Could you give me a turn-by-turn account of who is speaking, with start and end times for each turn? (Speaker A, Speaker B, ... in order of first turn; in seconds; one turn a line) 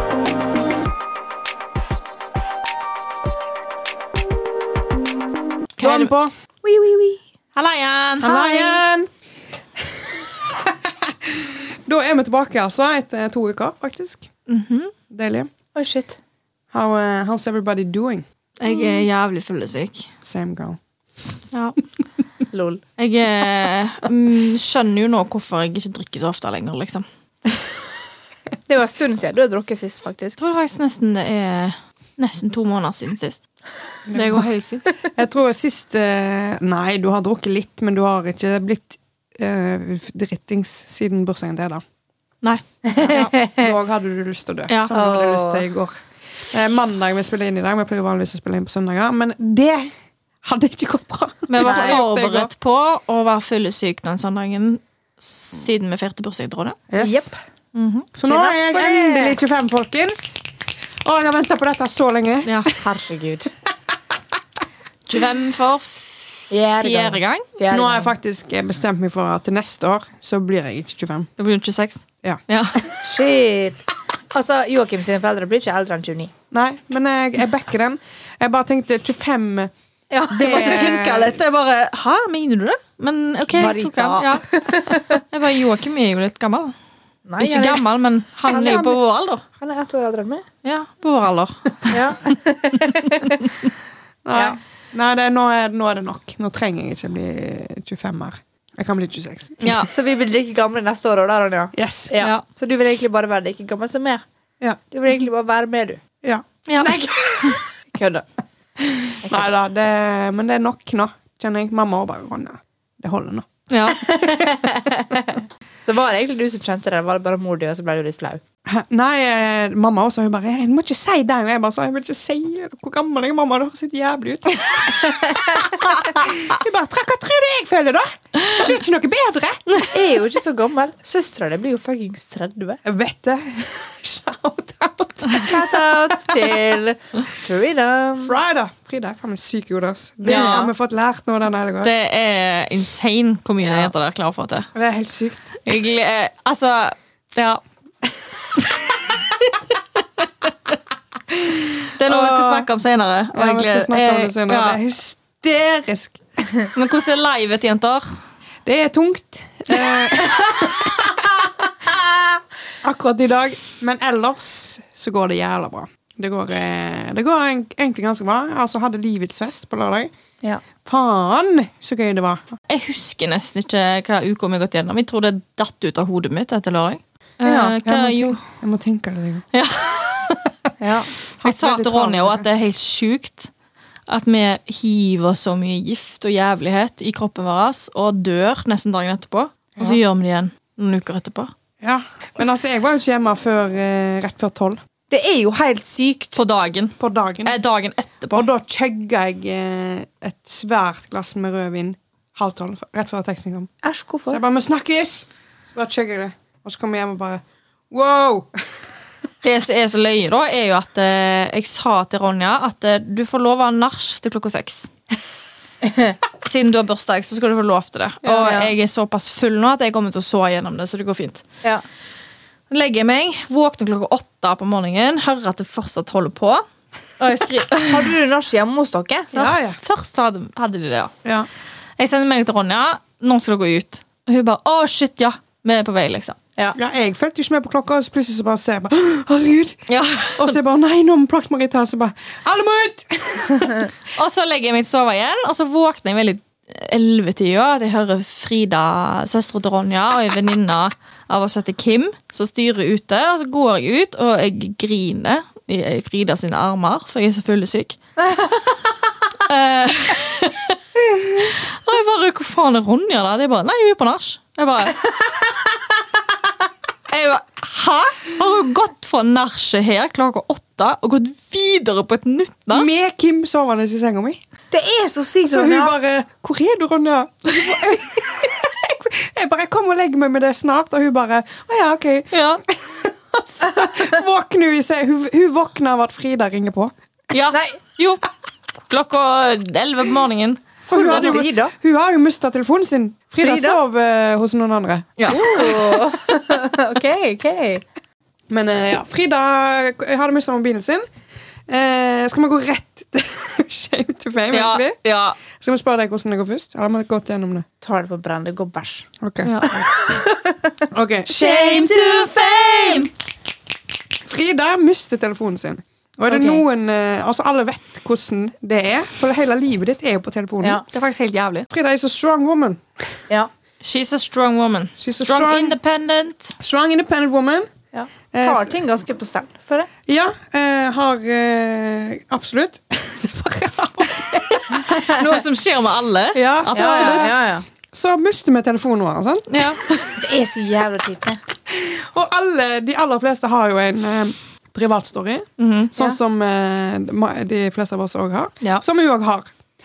Speaker A: 5.8-6.1
Speaker B: 5.8-6.3
Speaker C: 6.6-7.2
Speaker A: 7.5-8.7
Speaker B: 8.2-9.1
Speaker B: 9.8-14.3
Speaker A: 14.5-14.9
Speaker B: 15.1-15.5
Speaker C: 15.7-16.2
Speaker B: 16.7-18.2
Speaker A: 18.6-20.1
Speaker C: 18.6-19.0
Speaker B: 20.2-20.8
Speaker A: 21.5-21.8
Speaker C: 22.5-22.8
Speaker A: 23.0-27.1
Speaker C: 28.7-30.4
Speaker A: 30.4-33.4
Speaker B: 34.1-34.5
Speaker A: 34.1-34.8
Speaker B: 35.1-41.8
Speaker C: 42.8-43.7
Speaker B: 42.9-46.0
Speaker C: 44.9-45.6
Speaker B: 46.5-52.5
Speaker A: 51.5-56.8
Speaker C: 51.6-52.0
Speaker B: 56.9-57.3
Speaker C: 57.0-57.3
Speaker A: 57.7-58.1
Speaker B: 58.1-60.4
Speaker C: 58.2-59.4
Speaker B: 61.0-62.6
Speaker C: 62.8-63.5
Speaker A: 65.1-67.4
Speaker C: 66.5-68.1
Speaker B: 67.7-71.3
Speaker A: 71.4-72.8
Speaker B: 72.2-73.0
Speaker C: 73.0-76.3
Speaker B: 76.5-79.7
Speaker C: 80.1-81.0
Speaker B: 80.3-81.4
Speaker A: 80.3-86.7
Speaker C: 83.5-85.2
Speaker C: 87.2-87.9
Speaker A: 87.4-89.4
Speaker C: 88.5-89.0
Speaker B: 88.5-89.0
Speaker C: 89.6-90.5
Speaker A: 90.6-92.1
Speaker C: 91.9-93.5
Speaker B: 94.2-99.8
Speaker A: 99.6-99.9
Speaker C: 99.8-104.2
Speaker B: 101.7-102.1
Speaker C: 104.9-106.0
Speaker A: 106.7-107.6
Speaker C: 106.8-108.3
Speaker B: 108.8-113.5
Speaker C: 109.2-109.5
Speaker A: 113.7-114.0
Speaker C: 113.9-118.4
Speaker B: 118.7-129.8
Speaker C: 125.1-125.6
Speaker C: 129.9-132.8
Speaker B: 132.8-136.5
Speaker C: 135.3-138.3
Speaker B: 138.2-141.9
Speaker A: 140.2-140.7
Speaker C: 140.2-140.7
Speaker A: 141.8-144.7
Speaker B: 144.7-145.4
Speaker A: 145.7-147.6
Speaker B: 151.3-152.7
Speaker A: 152.0-154.8
Speaker B: 153.3-156.2
Speaker A: 156.7-158.0
Speaker B: 158.7-161.7
Speaker C: 160.2-160.7
Speaker C: 161.9-162.4
Speaker B: 162.8-170.1
Speaker B: 170.8-172.5
Speaker A: 172.7-178.4
Speaker C: 177.4-177.8
Speaker B: 177.8-179.4
Speaker A: 179.5-180.5
Speaker C: 180.8-181.1
Speaker B: 181.4-182.5
Speaker A: 181.4-183.5
Speaker A: 184.1-191.5
Speaker B: 191.8-194.8
Speaker C: 195.1-196.4
Speaker A: 196.3-198.4
Speaker B: 197.0-197.5
Speaker B: 198.3-203.7
Speaker C: 203.8-204.4
Speaker B: 204.3-208.5
Speaker A: 209.4-214.9
Speaker C: 215.8-216.1
Speaker A: 216.4-221.4
Speaker B: 218.2-218.6
Speaker C: 218.4-218.7
Speaker A: 222.7-226.6
Speaker A: 227.2-228.1
Speaker C: 227.9-229.3
Speaker B: 229.3-229.8
Speaker A: 229.3-231.1
Speaker A: 232.0-236.4
Speaker B: 236.7-239.8
Speaker A: 239.9-240.6
Speaker B: 240.3-243.9
Speaker A: 244.1-258.0
Speaker C: 258.2-258.5
Speaker A: 259.4-265.0
Speaker A: 267.1-272.9
Speaker B: 272.7-274.4
Speaker C: 274.7-275.9
Speaker B: 275.4-286.9
Speaker A: 282.3-282.6
Speaker A: 287.3-288.3
Speaker C: 287.5-287.8
Speaker A: 288.9-291.3
Speaker B: 290.9-295.1
Speaker C: 290.9-291.7
Speaker C: 293.4-293.8
Speaker A: 295.2-296.0
Speaker C: 295.3-297.8
Speaker B: 298.5-301.0
Speaker B: 301.7-304.9
Speaker A: 304.5-305.4
Speaker B: 305.5-307.6
Speaker C: 307.8-309.1
Speaker B: 309.2-309.9
Speaker A: 309.4-310.1
Speaker C: 309.9-313.1
Speaker B: 310.9-311.6
Speaker A: 311.3-313.1
Speaker B: 314.2-320.8
Speaker C: 316.3-316.6
Speaker A: 320.9-321.7
Speaker B: 321.7-323.2
Speaker A: 323.8-326.6
Speaker B: 325.0-325.8
Speaker B: 326.6-327.7
Speaker C: 327.9-329.9
Speaker B: 328.3-328.7
Speaker B: 330.1-334.7
Speaker A: 334.7-337.3
Speaker C: 334.9-335.4
Speaker B: 336.3-337.4
Speaker C: 336.7-337.6
Speaker B: 337.9-339.6
Speaker A: 339.5-340.1
Speaker C: 340.1-341.4
Speaker B: 341.7-349.5
Speaker A: 345.6-345.9